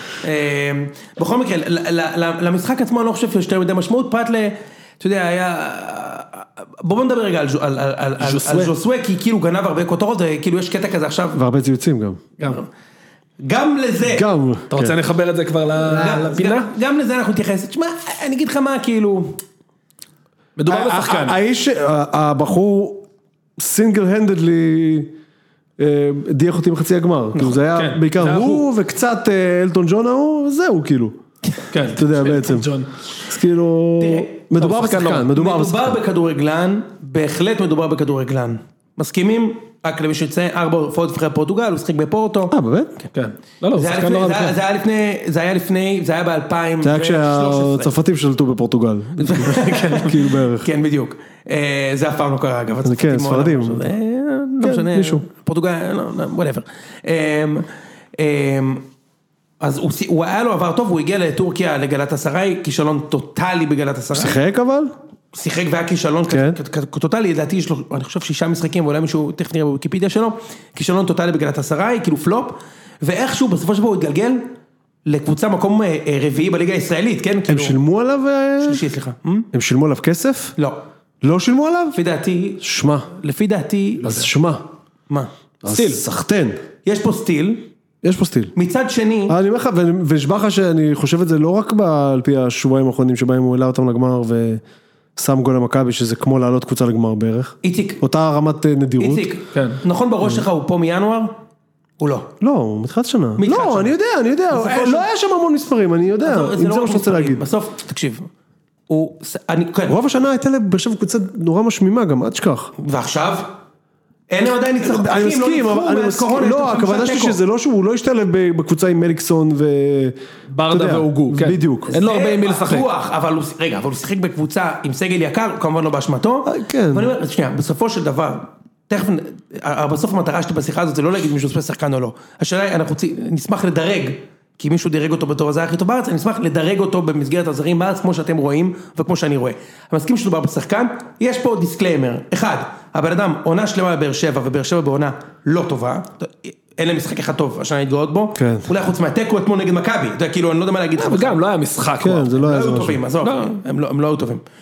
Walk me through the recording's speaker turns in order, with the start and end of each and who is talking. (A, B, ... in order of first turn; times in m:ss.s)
0:00.2-0:11.4 A
0:08.2-0:08.7 B
0:11.4-0:12.2 C
0:13.4-0:14.3 A
0:14.0-0:15.0 C
0:14.7-0:16.7 B
0:15.8-0:19.4 A
0:20.6-0:21.4 B
0:20.7-0:23.0 C
0:23.6-0:25.1 C
0:25.8-0:31.2 C
0:27.7-0:28.7 B
0:31.7-0:32.9 B
0:31.9-0:32.7 C
0:33.2-0:36.0 C
0:34.0-0:34.3 A
0:34.6-0:35.3 B
0:35.3-0:42.5 A
0:42.5-0:43.0 C
0:43.1-0:44.6 B
0:43.8-0:47.9 A
0:46.8-0:50.7 C
0:49.2-0:58.8 A
0:52.8-0:53.9 C
0:54.6-0:55.2 C
0:59.6-1:04.4 A
1:04.1-1:04.9 C
1:05.3-1:14.5 A
1:06.3-1:06.6 C
1:15.1-1:17.8 A
1:17.5-1:18.8 C
1:18.6-1:19.5 A
1:19.5-1:20.6 C
1:21.2-1:22.0 C
1:21.9-1:24.3 A
1:22.6-1:23.1 C
1:24.0-1:24.6 C
1:25.6-1:26.6 C
1:25.7-1:26.0 B
1:26.8-1:27.7 A
1:28.0-1:28.5 C
1:28.6-1:29.4 A
1:29.3-1:34.6 C
1:35.2-1:39.3 C
1:37.6-1:38.0 A
1:39.0-1:41.3 A
1:39.5-1:39.8 B
1:42.0-1:42.3 A
1:42.4-1:47.4 C
1:43.4-1:43.9 A
1:44.5-1:45.1 A
1:46.2-1:48.3 A
1:48.9-1:50.0 A
1:49.9-1:52.7 C
1:52.8-1:53.5 A
1:54.3-1:57.4 A
1:54.8-2:00.2 C
2:00.5-2:02.9 B
2:00.7-2:01.9 C
2:01.9-2:31.4 A
2:06.5-2:07.1 C
2:28.4-2:28.7 C
2:31.0-2:32.4 B
2:32.0-2:33.0 C
2:32.4-2:34.4 A
2:33.2-2:33.6 B